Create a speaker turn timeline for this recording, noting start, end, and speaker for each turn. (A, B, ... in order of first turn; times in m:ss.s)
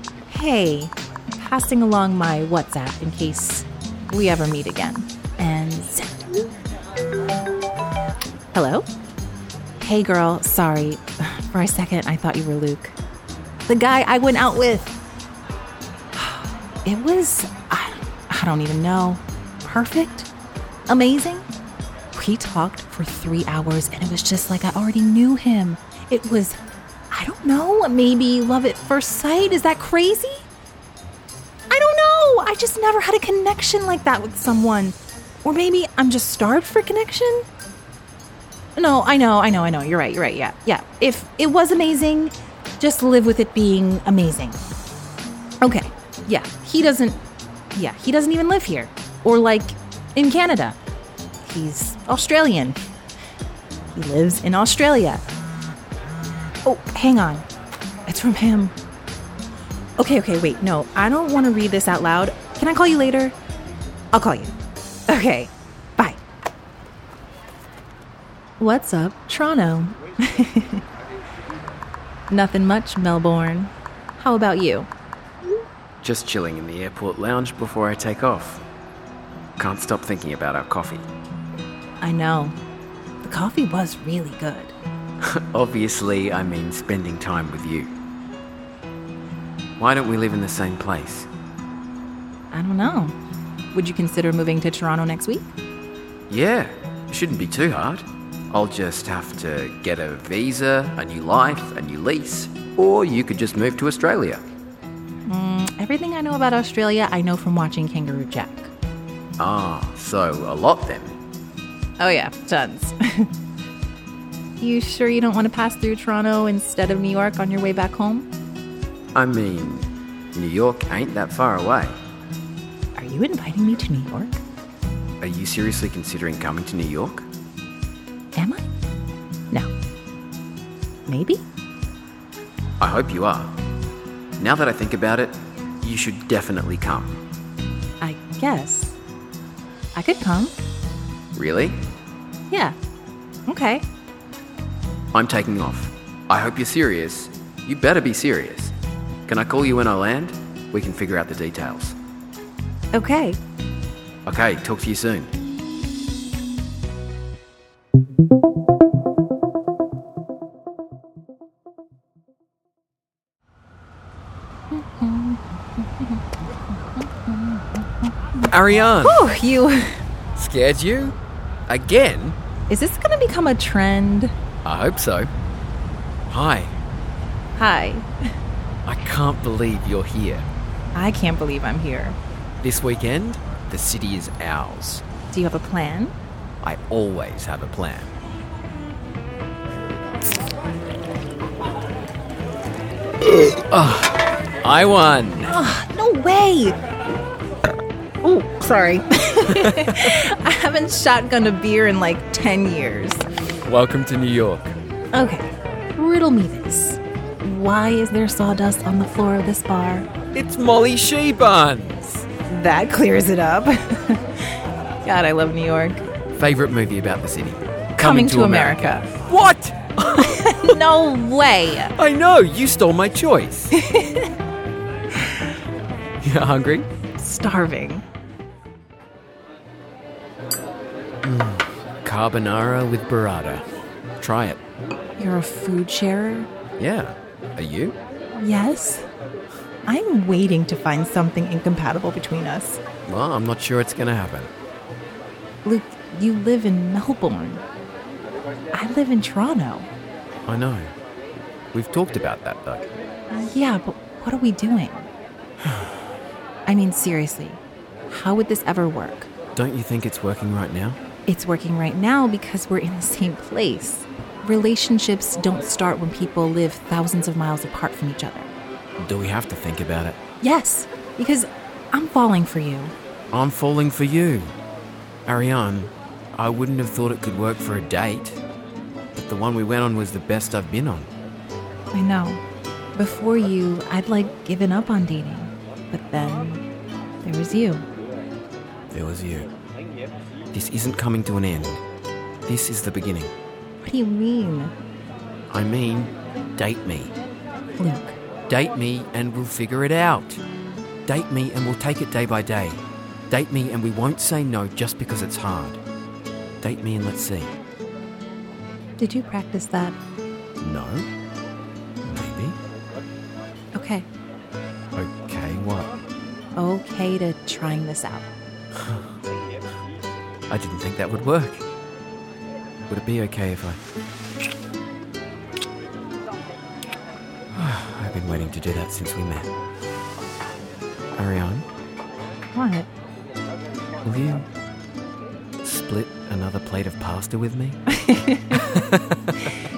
0:00.3-0:06.5 A
0:08.5-0:08.9 A
0:09.8-0:13.0 A
0:13.7-0:15.0 A
0:16.1-0:20.3 A
0:20.9-0:21.5 A
0:22.1-0:26.6 A
0:27.1-0:30.5 A
0:31.7-0:37.5 A
0:38.8-0:44.6 A
0:45.6-0:47.2 A
0:47.7-0:50.8 A
0:51.4-0:52.8 A
0:53.9-0:55.2 A
0:56.6-0:57.5 A
0:58.1-0:58.8 A
1:00.0-1:03.4 A
1:04.1-1:04.6 A
1:05.1-1:06.2 A
1:08.6-1:10.8 A
1:12.3-1:14.9 A
1:16.0-1:18.6 B
1:19.6-1:21.0 B
1:22.0-1:22.6 A
1:23.2-1:24.8 A
1:25.2-1:27.9 B
1:29.8-1:31.3 B
1:32.5-1:33.2 A
1:33.7-1:35.5 A
1:36.3-1:44.4 B
1:45.3-1:48.7 A
1:49.4-1:51.2 B
1:52.0-1:53.3 A
1:54.6-1:58.3 A
1:59.2-2:02.0 B
2:03.0-2:04.4 A
2:05.2-2:07.3 B
2:08.4-2:08.6 A
2:11.1-2:11.4 A
2:12.8-2:13.6 B
2:14.4-2:17.2 B
2:18.0-2:19.0 A
2:20.0-2:20.6 A
2:21.3-2:21.8 B
2:22.5-2:22.8 A
2:23.5-2:23.8 A
2:25.1-2:28.7 B
2:29.3-2:32.0 B
2:32.9-2:33.4 A
2:34.3-2:35.3 B
2:44.7-2:46.2 A
2:46.9-2:48.1 A
2:48.5-2:49.3 B
2:49.0-2:50.0 A
2:50.4-2:51.2 B
2:51.7-2:52.4 B
2:52.7-2:54.3 A
2:54.6-2:55.3 B
2:56.3-2:56.7 B
2:57.6-2:58.1 A
2:58.8-3:00.5 B
3:01.0-3:02.2 A
3:02.6-3:05.0 B
3:05.3-3:06.1 A
3:06.6-3:08.1 B
3:13.5-3:15.6 B
3:15.4-3:16.8 A
3:18.2-3:23.2 A
3:19.5-3:20.3 B
3:23.6-3:24.8 B
3:25.1-3:30.1 A
3:30.3-3:32.3 B
3:32.5-3:36.0 A
3:36.4-3:40.8 B
3:38.0-3:39.1 A
3:40.2-3:41.9 A
3:42.0-3:43.7 B
3:43.7-3:44.3 A
3:46.2-3:46.9 B
3:47.2-3:48.0 A
3:51.2-3:53.7 B
3:54.2-3:54.6 B
3:55.2-3:56.5 A
3:56.8-3:58.0 B
3:58.4-3:59.1 A
3:59.9-4:02.8 A
4:03.1-4:04.5 B
4:05.6-4:07.6 A
4:08.7-4:09.9 A
4:10.5-4:10.9 B
4:11.7-4:12.9 B
4:13.3-4:15.1 A
4:16.7-4:19.3 A
4:19.6-4:21.0 B
4:21.3-4:28.5 A
4:29.0-4:30.2 B
4:30.4-4:32.9 A
4:33.3-4:34.6 B
4:35.3-4:38.4 B
4:39.2-4:41.1 B
4:41.9-4:42.4 A
4:43.0-4:46.6 A
4:47.2-4:47.9 A
4:48.9-4:49.5 B
4:50.5-4:51.8 B
4:52.5-4:53.3 B
4:53.8-4:54.7 A
4:55.5-4:57.2 B
4:57.8-4:58.2 A
4:58.5-5:00.4 B
5:01.1-5:05.8 B
5:06.6-5:07.6 B
5:09.0-5:10.0 A
5:10.6-5:11.1 B
5:12.0-5:12.6 B
5:13.8-5:14.1 A
5:15.0-5:15.9 B
5:16.6-5:18.3 A
5:18.8-5:19.1 B
5:20.5-5:21.6 B
5:22.9-5:23.8 B
5:27.5-5:29.5 B
5:31.2-5:31.7 B
5:32.6-5:32.9 A
5:34.0-5:34.5 B
5:35.6-5:37.8 B
5:37.9-5:38.7 A
5:38.5-5:39.4 B